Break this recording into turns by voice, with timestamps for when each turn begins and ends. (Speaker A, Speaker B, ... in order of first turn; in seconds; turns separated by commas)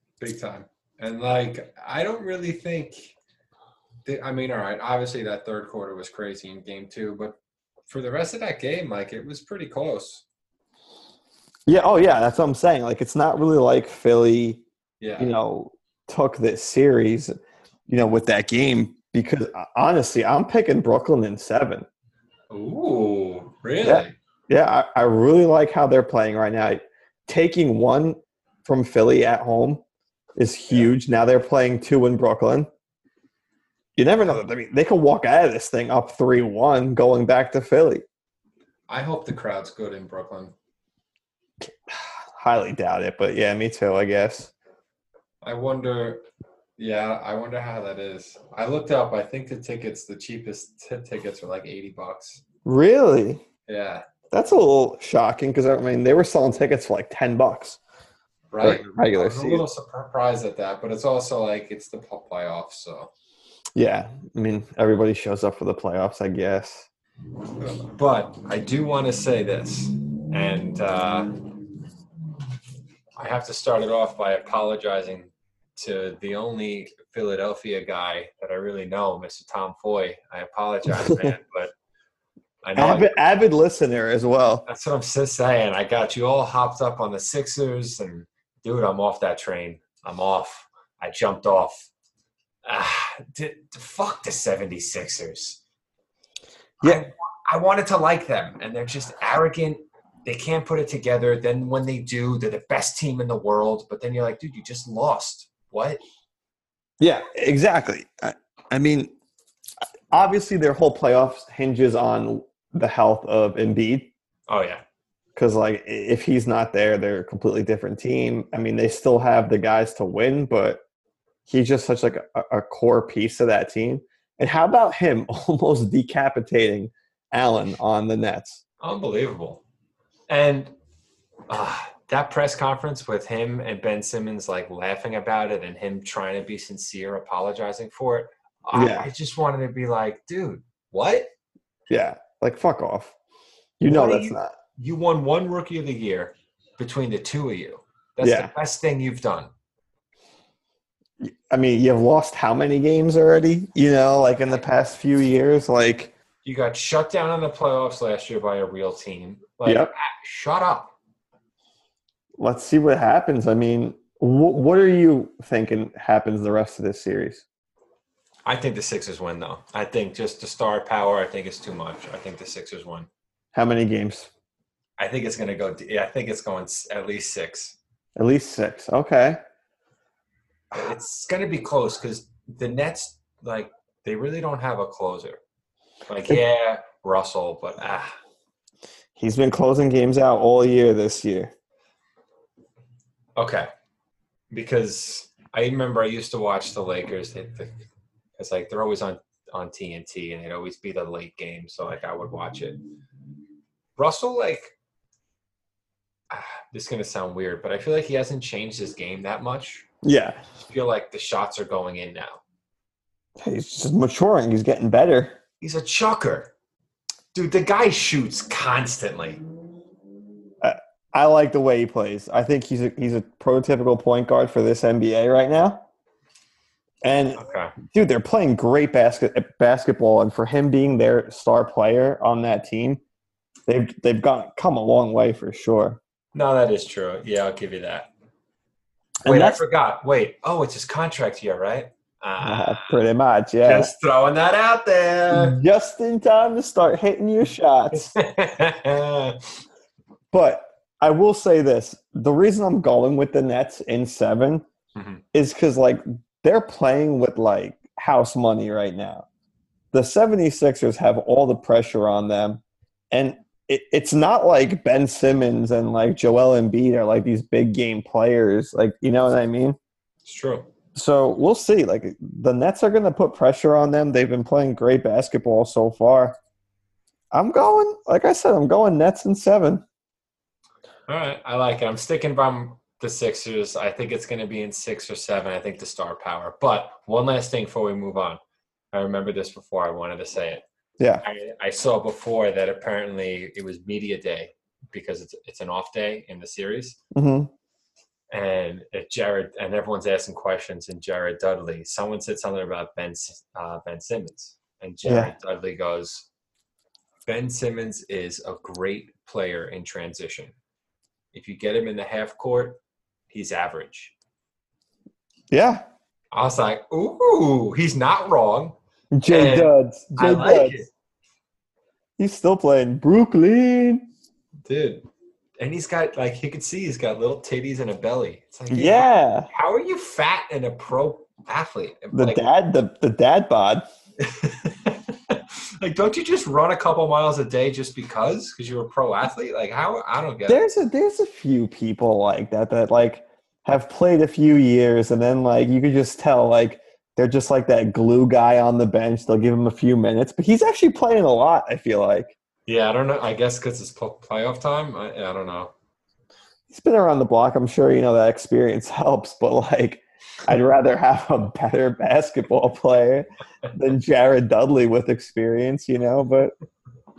Speaker A: 0.2-3.1, Speaker A: 4.0-7.4, Speaker A: 7.9-10.2, Speaker B: 11.7-14.6, Speaker A: 15.0-15.3, Speaker B: 15.2-17.3, Speaker B: 17.9-21.8, Speaker A: 22.5-24.1, Speaker B: 23.8-29.8, Speaker B: 30.4-32.7, Speaker B: 34.0-38.0, Speaker A: 38.9-40.5, Speaker B: 41.6-44.5, Speaker A: 45.4-46.2, Speaker A: 46.8-52.4, Speaker B: 52.6-53.4, Speaker A: 53.7-54.0, Speaker B: 54.3-57.8, Speaker A: 58.5-63.1, Speaker B: 58.6-59.6, Speaker B: 63.7-66.9, Speaker A: 67.6-71.3, Speaker A: 73.2-81.7, Speaker B: 81.0-81.3, Speaker A: 82.6-83.2, Speaker B: 82.8-84.6, Speaker A: 84.7-91.9, Speaker A: 92.6-95.6, Speaker A: 96.8-106.0, Speaker B: 107.0-109.1, Speaker B: 110.1-114.1, Speaker A: 114.5-114.8, Speaker B: 115.3-120.8, Speaker B: 121.5-128.6, Speaker A: 128.8-129.6, Speaker A: 130.3-130.7, Speaker A: 131.5-141.3, Speaker B: 138.7-139.1, Speaker B: 141.9-143.1, Speaker B: 143.8-144.5, Speaker A: 143.8-149.5, Speaker B: 148.2-148.5, Speaker B: 151.2-156.1, Speaker A: 156.4-160.9, Speaker B: 159.6-159.9, Speaker B: 162.4-167.4, Speaker A: 168.4-173.1, Speaker B: 173.5-174.3, Speaker A: 175.0-177.8, Speaker B: 178.2-179.4, Speaker A: 180.7-185.4, Speaker A: 186.1-188.1, Speaker B: 189.2-191.5, Speaker A: 193.3-193.7, Speaker A: 194.5-197.7, Speaker A: 198.4-202.8, Speaker A: 204.0-204.7, Speaker A: 206.3-209.9, Speaker B: 210.0-210.4, Speaker A: 210.6-212.4, Speaker B: 213.4-215.4, Speaker A: 215.6-216.5, Speaker A: 217.3-219.4, Speaker B: 220.6-225.8, Speaker B: 227.0-233.0, Speaker A: 227.3-227.7, Speaker B: 233.7-236.0, Speaker A: 236.3-238.1, Speaker B: 239.2-239.6, Speaker A: 239.2-243.0, Speaker B: 242.4-243.9, Speaker A: 243.6-245.6, Speaker B: 245.3-248.1, Speaker A: 247.9-249.5, Speaker B: 250.3-254.6, Speaker A: 254.9-255.2, Speaker B: 255.3-259.2, Speaker B: 259.9-269.8, Speaker A: 270.2-270.7, Speaker B: 270.9-276.4, Speaker B: 277.3-279.8, Speaker A: 281.1-288.4, Speaker A: 288.9-290.6, Speaker A: 291.2-297.0, Speaker B: 297.1-297.5, Speaker A: 298.3-306.3, Speaker B: 305.0-305.3, Speaker A: 307.2-310.5, Speaker A: 311.3-312.8, Speaker A: 313.3-314.1, Speaker B: 315.5-315.8, Speaker A: 316.3-318.8, Speaker B: 319.1-320.8, Speaker A: 319.3-320.9, Speaker B: 322.2-324.0, Speaker A: 324.6-325.0, Speaker A: 325.6-332.4, Speaker B: 328.7-329.5, Speaker B: 332.1-333.8, Speaker A: 334.2-340.6, Speaker B: 340.5-352.3, Speaker A: 352.7-355.7, Speaker B: 356.7-366.5